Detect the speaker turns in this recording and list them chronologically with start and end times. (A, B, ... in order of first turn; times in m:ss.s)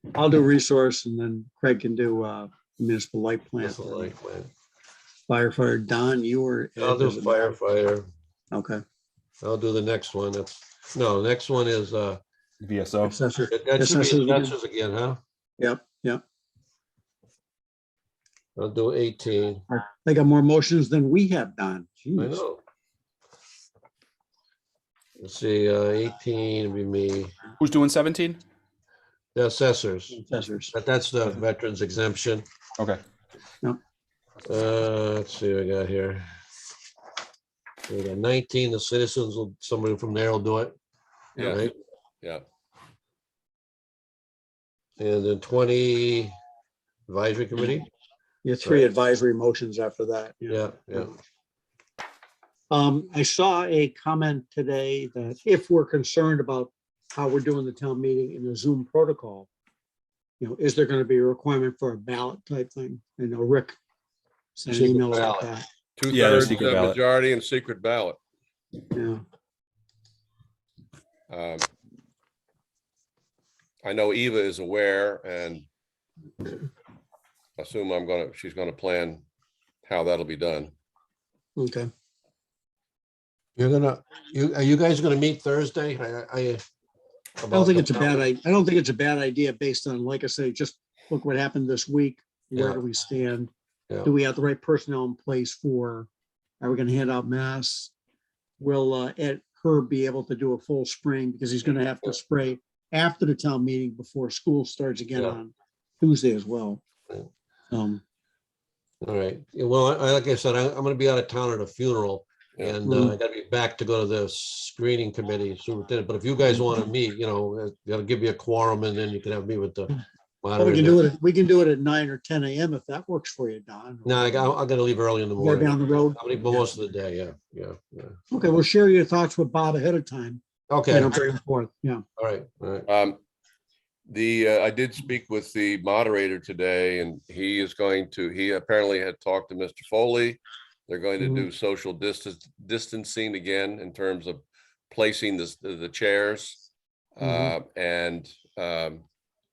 0:00.1-0:04.1 A
0:03.6-0:04.5 B
0:05.3-0:07.5 A
0:06.8-0:08.1 B
0:08.5-0:08.8 A
0:09.4-0:12.2 B
0:12.6-0:13.2 C
0:13.0-0:14.5 A
0:13.5-0:15.2 B
0:15.6-0:16.2 A
0:18.6-0:19.6 B
0:19.8-0:22.4 A
0:22.2-0:22.6 B
0:25.2-0:27.3 B
0:27.6-0:28.4 C
0:29.3-0:30.2 B
0:30.1-0:30.7 A
0:30.7-0:32.4 B
0:34.5-0:36.2 B
0:37.9-0:40.7 B
0:41.4-0:41.6 D
0:41.4-0:41.7 B
0:45.0-0:46.3 B
0:47.1-0:47.9 B
0:48.4-0:51.2 A
0:50.5-0:51.1 B
0:52.7-0:59.5 A
1:00.4-1:03.8 A
1:04.6-1:05.6 A
1:04.7-1:05.4 B
1:06.0-1:08.2 D
1:06.1-1:07.0 C
1:08.9-1:09.2 A
1:11.3-1:11.6 D
1:13.8-1:15.6 D
1:17.6-1:19.2 D
1:19.8-1:20.7 D
1:21.6-1:21.9 A
1:23.6-1:26.6 B
1:27.4-1:28.2 B
1:27.5-1:33.5 A
1:32.6-1:32.8 B
1:34.0-1:36.1 A
1:36.6-1:37.9 A
1:38.6-1:46.8 A
1:47.7-1:48.0 A
1:49.0-2:01.0 B
1:52.8-1:53.2 A
1:56.5-1:56.8 A
2:00.6-2:04.5 A
2:04.0-2:08.5 B
2:05.4-2:06.7 A
2:08.3-2:12.0 A
2:10.7-2:11.2 B
2:12.2-2:12.9 B
2:12.9-2:13.2 D
2:14.1-2:26.6 D
2:21.2-2:21.5 A
2:27.2-2:29.0 D
2:27.2-2:27.5 A